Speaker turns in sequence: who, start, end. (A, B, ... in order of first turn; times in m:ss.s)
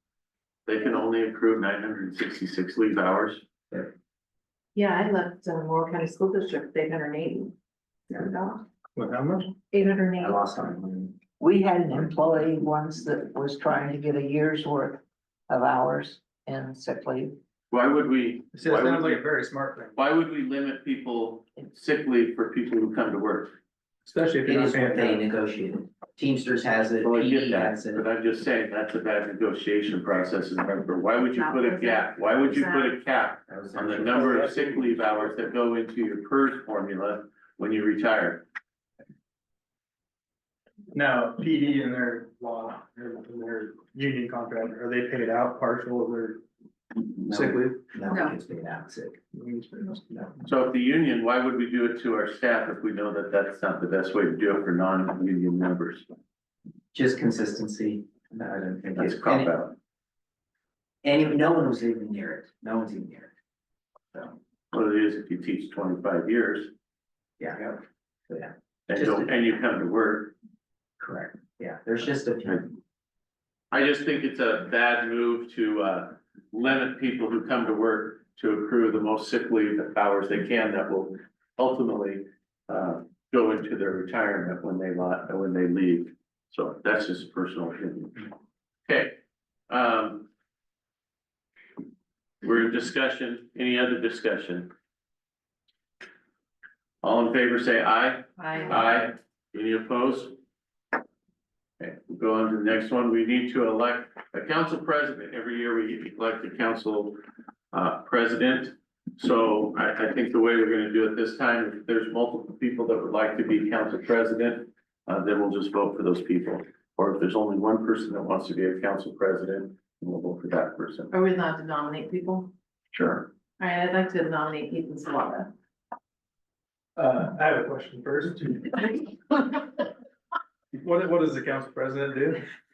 0:00.7-0:03.4 A
0:04.8-0:07.5 B
0:08.1-0:08.6 B
0:09.0-0:09.5 C
0:09.7-0:10.4 B
0:10.2-0:11.2 D
0:11.4-0:17.4 E
0:17.7-0:19.2 A
0:18.5-0:20.0 C
0:20.0-0:23.6 A
0:24.0-0:25.2 C
0:24.4-0:28.0 D
0:27.0-0:38.4 A
0:31.6-0:32.0 B
0:32.6-0:32.9 B
0:33.5-0:34.5 D
0:40.9-0:46.4 C
0:47.2-0:47.8 C
0:47.3-0:49.2 D
0:49.3-0:50.4 C
0:50.5-0:56.1 A
0:56.9-0:59.6 D
0:58.9-0:59.8 A
1:01.0-1:03.3 D
1:04.7-1:06.7 A
1:07.4-1:07.8 D
1:08.3-1:09.3 D
1:08.9-1:10.4 A
1:11.0-1:12.7 D
1:13.7-1:28.3 A
1:28.9-1:29.2 A
1:29.7-1:30.3 A
1:32.4-1:34.7 A
1:37.0-1:40.4 A
1:38.4-1:39.0 B
1:41.8-1:47.2 A
1:47.7-2:01.1 A
2:01.1-2:02.5 B
2:03.0-2:03.2 A
2:03.6-2:05.5 B
2:07.0-2:09.2 C
2:10.8-2:12.5 C